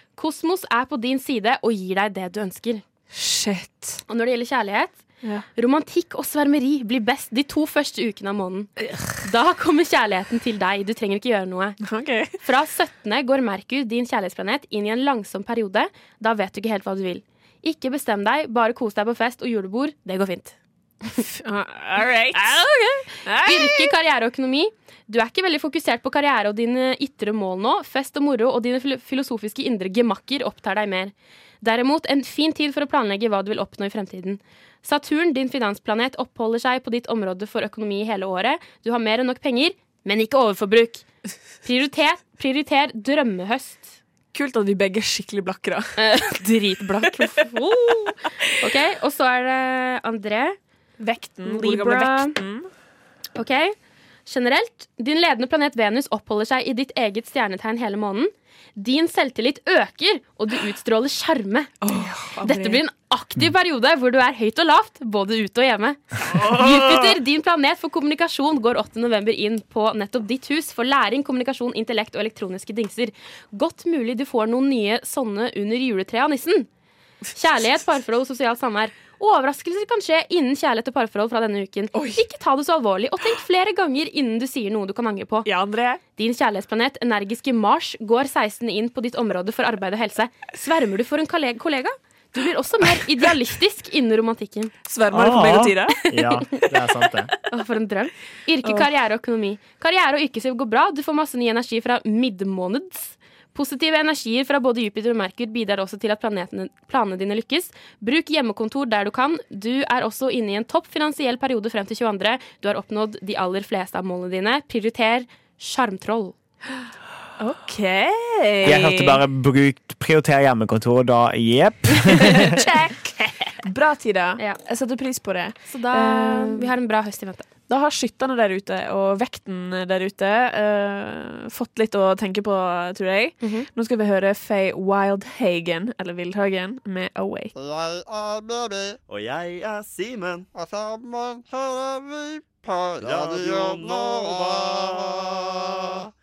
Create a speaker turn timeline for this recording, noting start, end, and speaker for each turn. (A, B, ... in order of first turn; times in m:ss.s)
0:00.2-0:02.8 A
0:03.1-0:04.0 B
0:04.1-0:05.0 A
0:05.6-0:08.7 A
0:09.2-0:11.8 A
0:11.8-0:12.4 B
0:12.4-0:20.5 A
0:21.2-0:22.7 B
0:22.3-0:41.0 A
0:23.2-0:23.9 B
0:41.6-0:43.9 A
0:44.3-0:46.4 B
0:46.0-0:50.6 A
0:47.1-0:47.4 B
0:51.0-0:52.7 B
0:51.4-0:52.4 A
0:53.4-0:53.7 A
0:54.2-1:16.7 A
1:01.8-1:02.8 B
1:06.3-1:07.1 B
1:17.3-1:25.5 A
1:21.9-1:22.2 B
1:25.4-1:26.0 B
1:26.2-1:34.7 A
1:34.8-1:36.0 B
1:35.1-1:37.3 C
1:37.5-1:56.4 A
1:57.4-1:59.2 B
1:58.6-2:02.6 C
2:02.2-2:06.7 B
2:05.7-2:07.4 A
2:07.7-2:17.5 B
2:13.4-2:13.7 A
2:17.6-2:26.0 D